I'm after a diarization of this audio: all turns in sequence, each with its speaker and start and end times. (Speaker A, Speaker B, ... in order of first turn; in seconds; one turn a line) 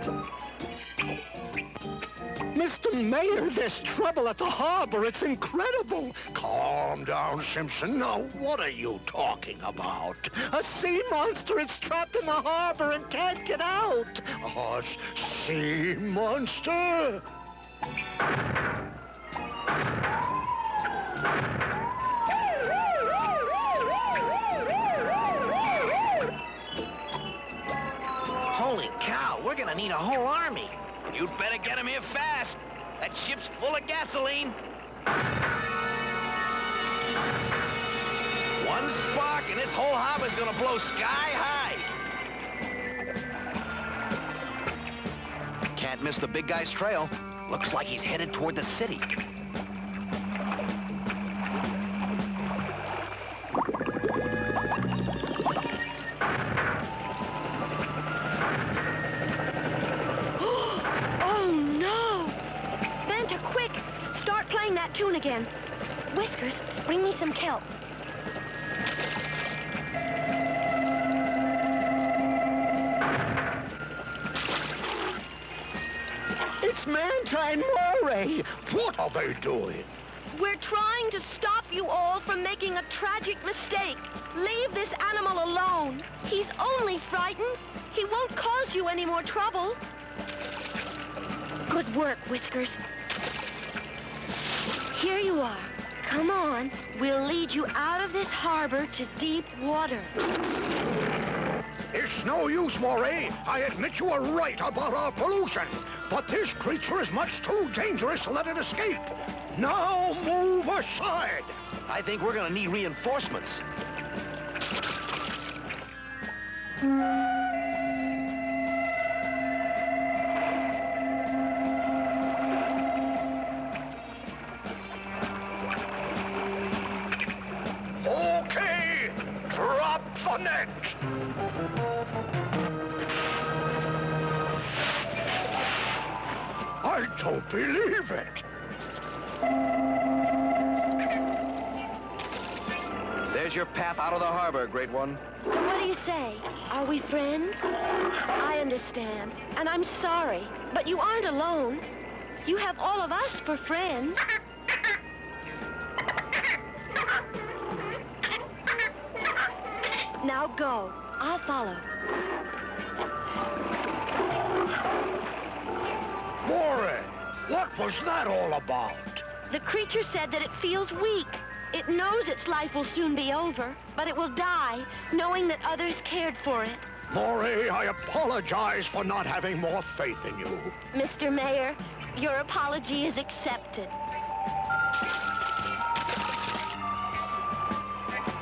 Speaker A: 2.5-17.2
Speaker B: 28.5-34.6
Speaker B: 38.6-41.9
Speaker B: 45.7-49.1
Speaker C: 60.4-62.4
Speaker C: 63.0-65.5
Speaker C: 66.1-67.7
Speaker A: 76.6-79.9
Speaker C: 80.3-89.8
Speaker C: 91.7-92.8
Speaker C: 94.9-100.1
Speaker A: 101.9-111.5
Speaker B: 111.9-113.6
Speaker A: 128.0-131.0
Speaker A: 136.8-138.4
Speaker B: 143.3-145.2
Speaker C: 145.4-147.7
Speaker C: 148.3-151.8
Speaker C: 152.4-154.2
Speaker C: 160.2-161.9
Speaker A: 166.4-169.2
Speaker C: 169.5-176.8
Speaker A: 177.1-180.7
Speaker C: 180.9-183.9